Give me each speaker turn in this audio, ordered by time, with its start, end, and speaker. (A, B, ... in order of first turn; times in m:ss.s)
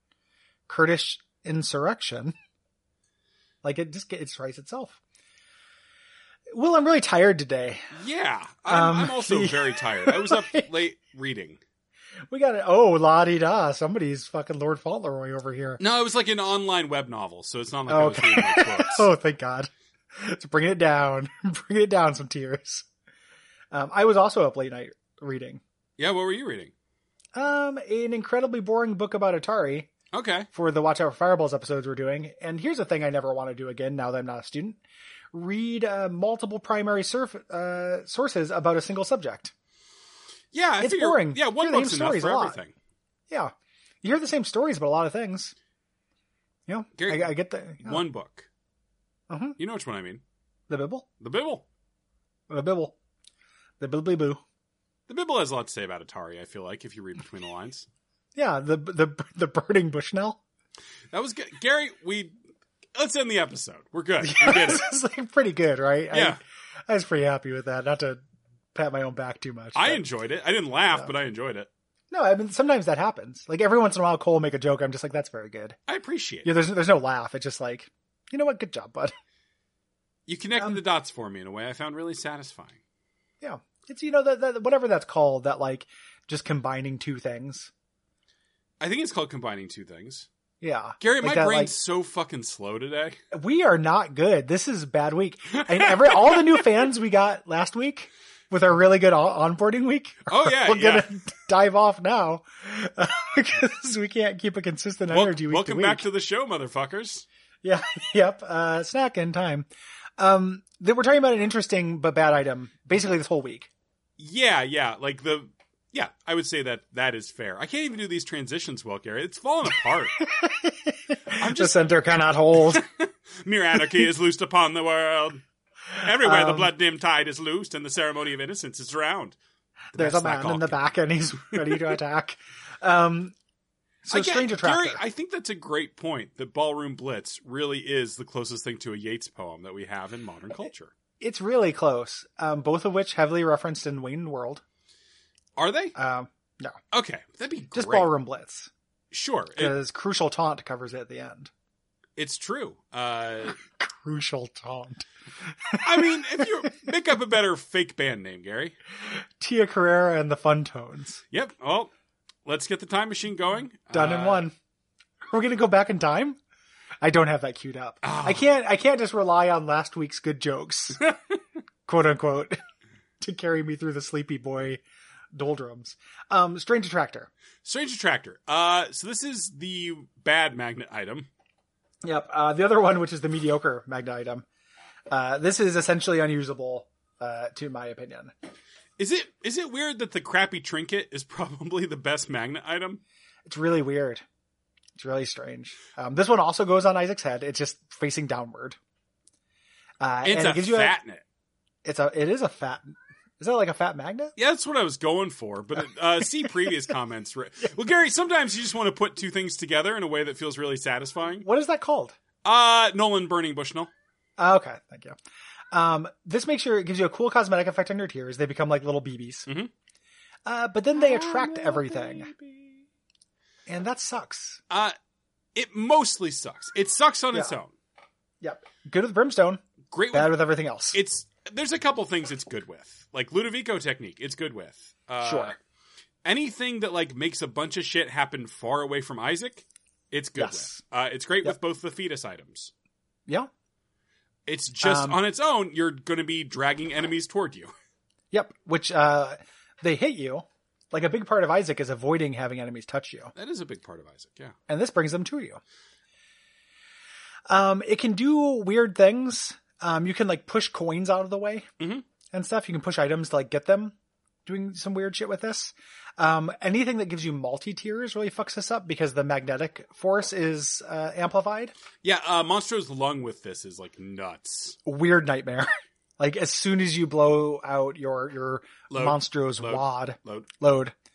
0:00.7-0:02.4 A
0:03.6-0:05.0 A
0:06.5-0:07.9 A
0:07.9-0:11.6 B
0:08.7-0:10.7 A
0:12.3-0:15.8 A
0:15.8-0:19.1 B
0:17.9-0:22.9 A
0:23.7-0:25.6 A
0:26.0-0:26.7 B
0:27.4-0:29.9 A
0:30.1-0:30.5 B
0:30.5-0:34.8 A
0:35.3-0:39.5 A
0:40.5-0:42.8 B
0:40.8-0:42.6 A
0:43.3-0:45.5 A
0:46.7-0:48.0 A
0:47.0-0:48.5 B
0:49.3-0:49.6 A
0:49.6-0:50.2 B
0:50.7-0:51.1 A
0:51.2-0:51.6 B
0:52.5-0:53.0 A
0:53.8-0:54.4 A
0:55.1-0:57.9 B
0:58.4-1:00.4 A
1:01.1-1:02.4 B
1:03.0-1:04.9 B
1:04.2-1:08.2 A
1:06.1-1:06.4 B
1:08.7-1:10.0 A
1:09.8-1:11.7 B
1:12.1-1:15.8 A
1:15.9-1:16.5 B
1:16.4-1:19.1 A
1:20.3-1:22.8 B
1:23.4-1:27.7 A
1:28.8-1:30.3 B
1:30.6-1:31.8 A
1:31.0-1:33.2 B
1:33.3-1:46.1 A
1:35.9-1:36.6 B
1:40.3-1:41.1 B
1:45.1-1:47.3 B
1:47.6-1:53.7 A
1:54.2-2:00.2 B
2:00.2-2:02.8 A
2:01.4-2:01.8 B
2:02.7-2:09.4 B
2:06.2-2:06.7 A
2:09.9-2:12.0 B
2:10.0-2:13.3 A
2:14.0-2:15.0 A
2:14.1-2:20.9 B
2:21.2-2:24.6 A
2:25.6-2:26.0 B
2:26.0-2:26.8 A
2:26.9-2:28.1 B
2:27.8-2:28.7 A
2:29.1-2:29.8 B
2:29.6-2:31.5 A
2:32.2-2:33.6 B
2:33.6-2:35.0 A
2:35.7-2:36.5 A
2:35.8-2:38.7 B
2:39.4-2:41.2 A
2:41.3-2:41.9 B
2:42.4-2:44.5 B
2:43.9-2:44.5 A
2:45.3-2:46.4 A
2:47.0-2:51.0 A
2:48.0-2:48.5 B
2:51.9-2:52.6 A
2:53.2-2:54.8 A
2:55.3-2:57.3 A
2:57.6-3:01.3 B
3:02.0-3:04.4 A
3:05.1-3:08.3 A
3:09.0-3:13.0 B
3:13.5-3:14.2 A
3:15.0-3:18.8 A
3:20.0-3:21.0 A
3:20.2-3:21.2 B
3:21.8-3:24.3 A
3:24.4-3:31.5 B
3:31.4-3:32.2 A
3:32.4-3:33.9 B
3:34.4-3:35.2 A
3:35.7-3:39.5 A
3:40.5-3:42.3 A
3:40.9-3:42.8 B
3:43.7-3:44.6 A
3:44.7-3:45.0 B
3:45.6-3:47.7 B
3:48.4-3:49.6 A
3:49.9-3:50.4 B
3:50.1-3:51.0 A
3:50.9-3:55.6 B
3:55.2-3:55.6 A
3:56.2-4:02.7 B
4:00.4-4:00.8 A
4:04.5-4:07.7 B
4:04.8-4:05.2 A
4:08.3-4:13.3 A
4:13.4-4:14.6 B
4:14.7-4:15.6 A
4:17.5-4:21.7 A
4:21.8-4:22.0 B
4:22.3-4:23.9 A
4:24.5-4:31.7 A
4:32.0-4:34.8 B
4:34.9-4:40.9 A
4:38.9-4:40.5 B